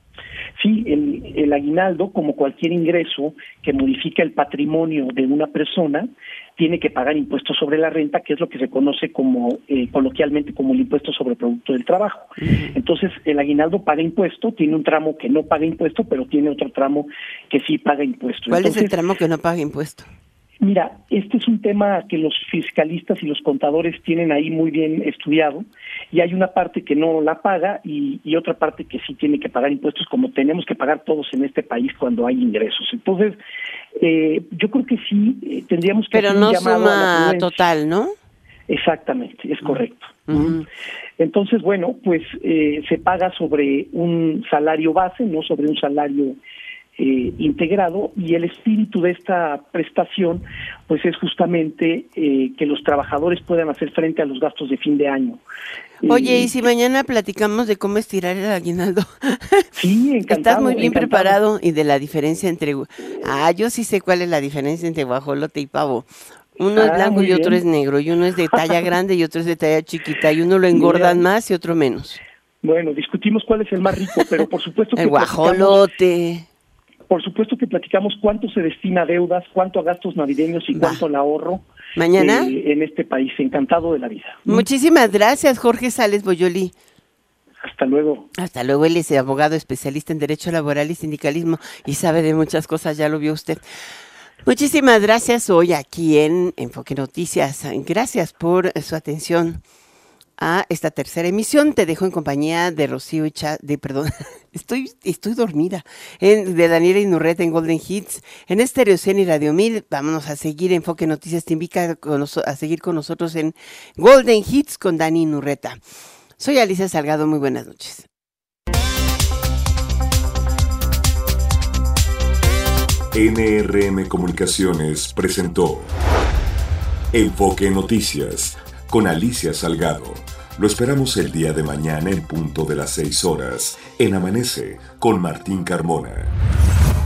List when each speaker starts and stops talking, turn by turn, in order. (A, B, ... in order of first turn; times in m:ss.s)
0:00.6-0:18.9 A
0:12.4-0:12.7 B
0:18.5-0:20.1 B
0:20.6-0:33.4 A
0:34.0-0:37.6 A
0:36.1-0:38.1 B
0:38.7-0:40.6 A
0:40.3-0:40.6 B
0:41.2-0:46.4 A
0:47.0-0:55.4 A
0:56.0-0:56.5 A
0:56.0-0:59.7 B
0:59.8-1:01.4 A
1:00.3-1:12.2 B
1:06.8-1:07.6 A
1:10.7-1:11.2 A
1:12.6-1:15.8 A
1:15.0-1:16.4 B
1:17.1-1:24.6 A
1:20.7-1:21.0 B
1:22.0-1:22.5 B
1:24.4-1:26.7 B
1:27.6-1:28.3 A
1:28.4-1:33.6 B
1:34.4-1:39.6 B
1:40.4-1:55.8 B
1:56.4-1:58.1 B
2:03.1-2:05.9 C
2:07.1-2:16.3 C